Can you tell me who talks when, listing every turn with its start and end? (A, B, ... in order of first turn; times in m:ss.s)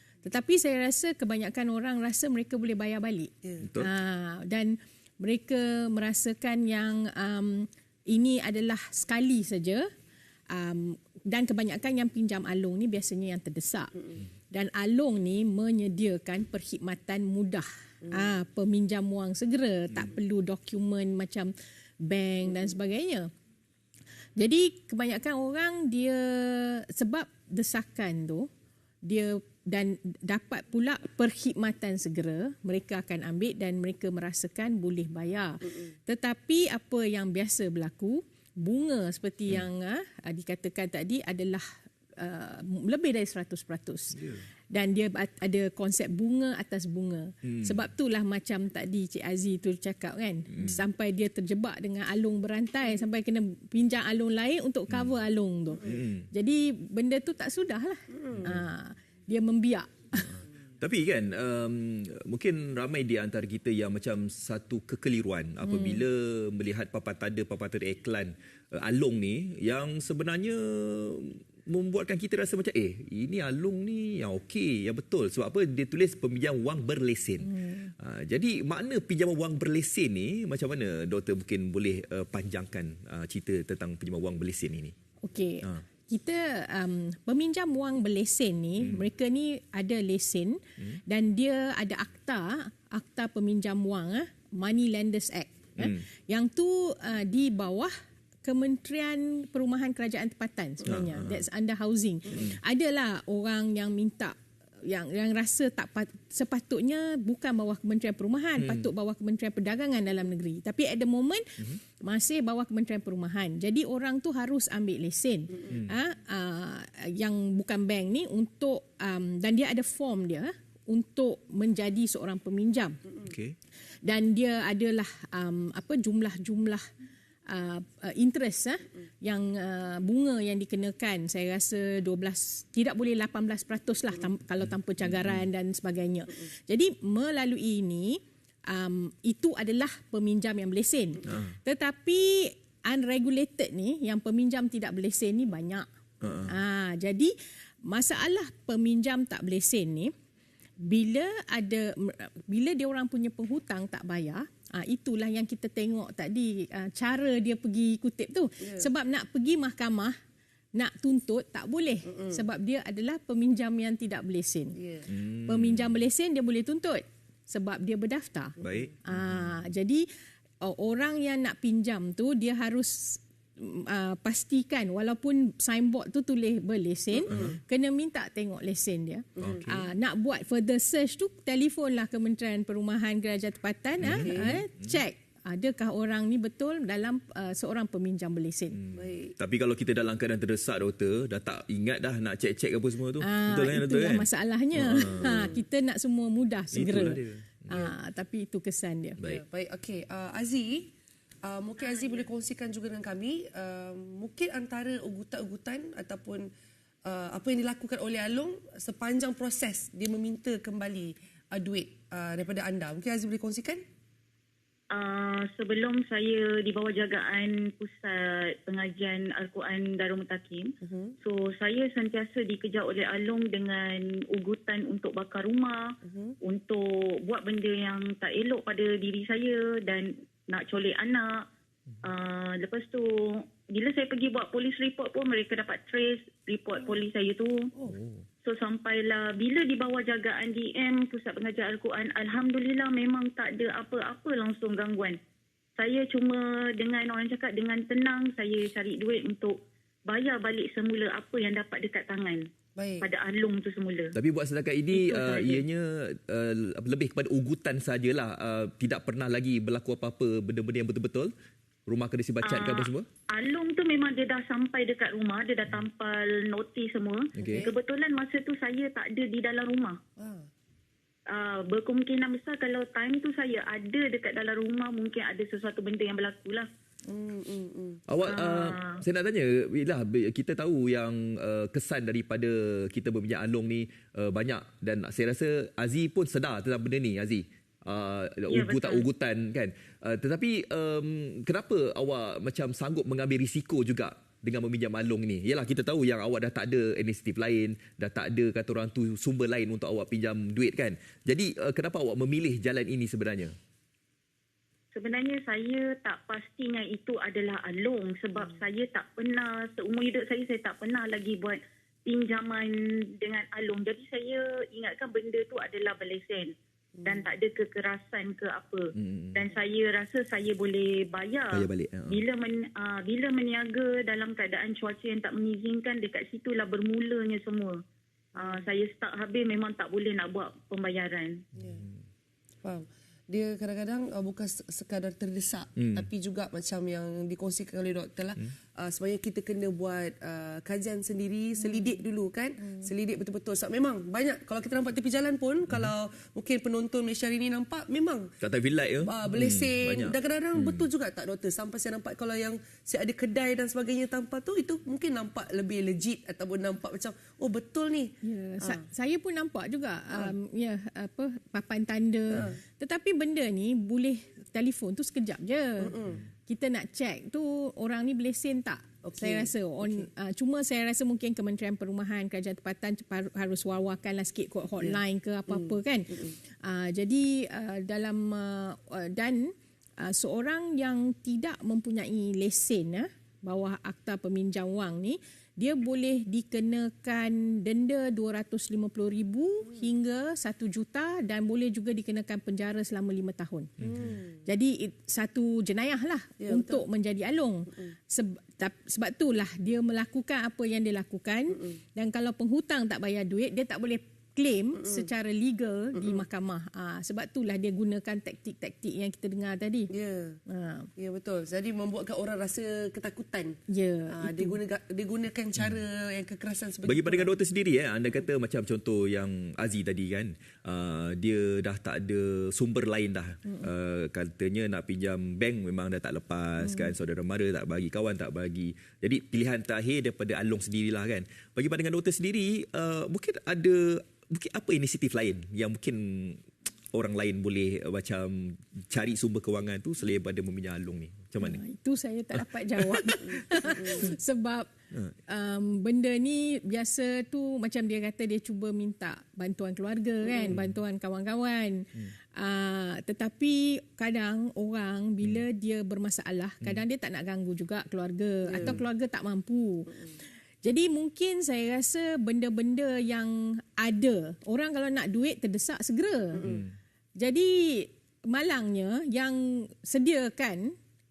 0:00.2-0:09.9 A
0:03.6-0:03.9 B
0:10.5-0:13.9 A
0:14.5-0:23.3 A
0:18.0-0:18.3 C
0:24.4-0:28.5 A
0:29.0-0:41.6 A
0:42.2-0:44.2 A
0:44.1-0:44.4 B
0:44.7-1:00.4 A
0:47.4-0:47.8 B
0:50.5-0:50.8 B
0:55.8-0:56.2 B
0:58.1-0:58.5 C
1:00.8-1:24.9 B
1:05.6-1:06.0 A
1:17.4-1:17.9 A
1:25.2-1:37.9 A
1:38.4-2:03.0 A
1:40.9-1:41.4 B
1:48.6-1:48.9 B
2:03.2-2:03.5 B
2:04.0-2:06.8 A
2:07.5-2:25.8 A
2:15.1-2:15.4 B
2:21.2-2:21.5 B
2:26.2-2:26.5 B
2:26.4-2:27.3 A
2:27.9-2:30.1 A
2:30.8-2:40.1 A
2:38.6-2:38.9 C
2:40.7-2:44.7 A
2:42.0-2:42.4 C
2:44.7-2:45.0 C
2:45.1-2:45.9 B
2:45.4-2:50.0 A
2:48.6-2:49.4 B
2:50.6-3:08.8 A
2:57.2-2:57.6 C
2:57.3-2:57.6 B
2:59.4-2:59.8 B
3:04.0-3:04.7 B
3:04.0-3:04.6 C
3:08.7-3:15.4 B
3:08.9-3:09.3 C
3:13.2-3:19.2 A
3:15.3-3:15.6 C
3:16.7-3:17.9 B
3:19.2-3:20.9 C
3:21.4-3:26.5 C
3:27.0-3:33.8 C
3:34.9-3:51.4 D
3:40.8-3:41.1 C
3:46.0-3:46.4 C
3:52.0-3:53.1 D
3:53.6-3:57.7 D
3:57.9-3:58.2 B
3:58.4-4:05.2 D
4:05.8-4:09.6 D
4:10.1-4:12.4 D
4:12.8-4:13.1 C
4:13.0-4:14.1 D
4:14.1-4:21.3 B
4:14.9-4:15.6 D
4:21.8-4:23.1 B
4:22.4-4:30.0 D
4:27.4-4:27.7 B
4:27.4-4:27.7 C
4:30.2-4:30.5 C
4:31.3-4:36.7 D
4:37.1-4:38.0 C
4:38.1-5:03.6 B
4:38.2-4:39.0 D
4:48.5-4:49.1 D
5:04.9-5:27.8 D
5:17.0-5:17.3 C
5:18.9-5:19.4 B
5:21.5-5:22.2 B
5:28.4-5:28.7 C
5:28.4-5:31.4 D
5:31.6-5:31.8 C
5:32.6-5:48.3 C
5:35.8-5:36.1 B
5:48.4-5:50.8 B
5:49.0-5:58.8 C
5:58.2-6:05.9 A
6:02.3-6:02.6 C
6:05.8-6:06.2 C
6:06.5-6:33.7 A
6:09.0-6:10.0 C
6:14.8-6:16.3 C
6:33.8-6:34.4 C
6:34.4-6:49.9 A
6:36.4-6:36.8 C
6:41.5-6:41.8 C
6:44.8-6:45.1 C
6:45.9-6:46.2 C
6:49.9-6:50.4 C
6:50.5-6:50.9 A
6:51.0-6:57.3 C
6:53.7-6:54.6 A
6:56.8-7:21.6 B
7:21.4-7:24.7 A
7:23.3-7:24.1 C
7:25.3-7:40.0 A
7:30.2-7:30.6 C
7:38.4-7:38.8 C
7:40.6-7:46.4 A
7:46.3-7:46.6 C
7:46.4-7:46.7 B
7:47.2-7:50.7 A